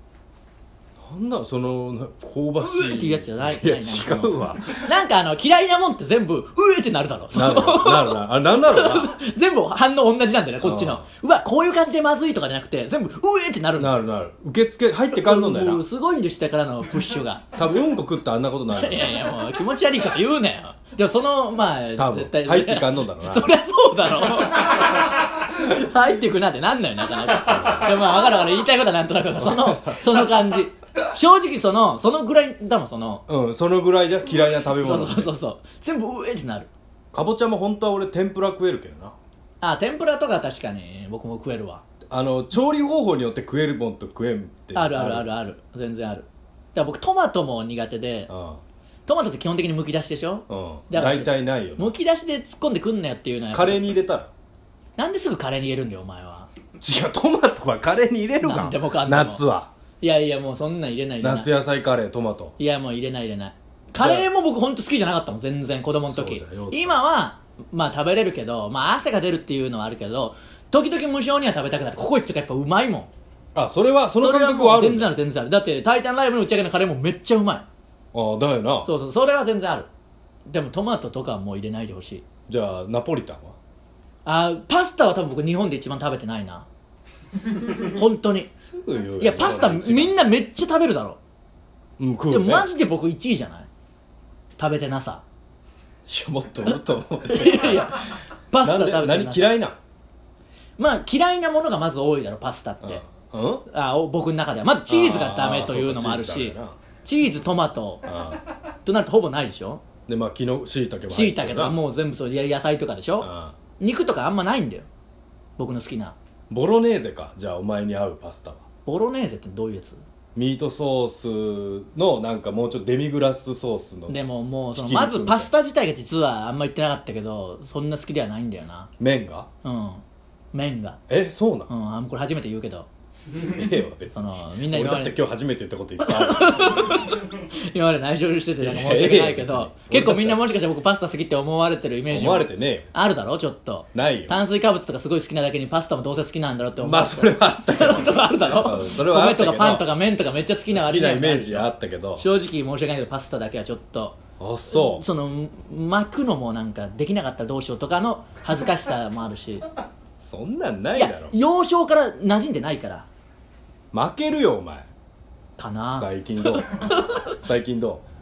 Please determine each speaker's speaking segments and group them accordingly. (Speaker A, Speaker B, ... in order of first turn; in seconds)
Speaker A: 1.0-4.9, 7.3-9.1, 10.6-11.0, 13.8-15.8, 17.6-19.3, 22.0-23.5, 29.4-30.4, 33.3-35.3, 37.1-39.1, 42.1-45.3, 48.3-48.6, 50.5-51.9, 53.5-54.3, 56.8-59.7, 61.2-62.5, 64.0-64.3, 66.1-67.0, 73.5-75.1, 78.1-78.9, 82.5-83.5, 88.6-90.2, 92.0-92.7, 96.1-99.8, 102.8-103.6, 104.9-106.8, 108.0-108.4, 110.1-111.8, 113.2-113.5, 116.5-118.6, 120.3-124.2, 124.7-125.5, 129.0-129.5, 131.1-131.7, 133.4-137.0, 138.6-140.4, 142.1-142.9, 143.9-144.4, 146.8-149.9, 150.7-152.3, 154.4-155.1, 160.2-161.4, 163.9-164.9, 165.9-168.0
Speaker B: 2.6-13.9, 15.1-17.5, 18.7-33.2, 34.7-36.7, 39.6-41.8, 44.7-48.3, 49.0-53.9, 55.0-56.5, 58.4-59.4, 60.0-61.5, 62.6-73.1, 74.1-77.7, 78.8-79.9, 80.5-82.2, 84.2-86.7, 87.7-88.5, 89.2-91.2, 92.3-93.7, 94.6-95.2, 97.3-99.5, 100.8-103.0, 103.7-108.0, 108.8-109.8, 111.1-114.9, 115.6-116.2, 118.9-120.0, 124.1-128.9, 129.6-131.0, 131.7-132.9, 134.1-135.2, 136.0-154.2, 154.7-159.6, 161.0-163.1, 165.6-167.3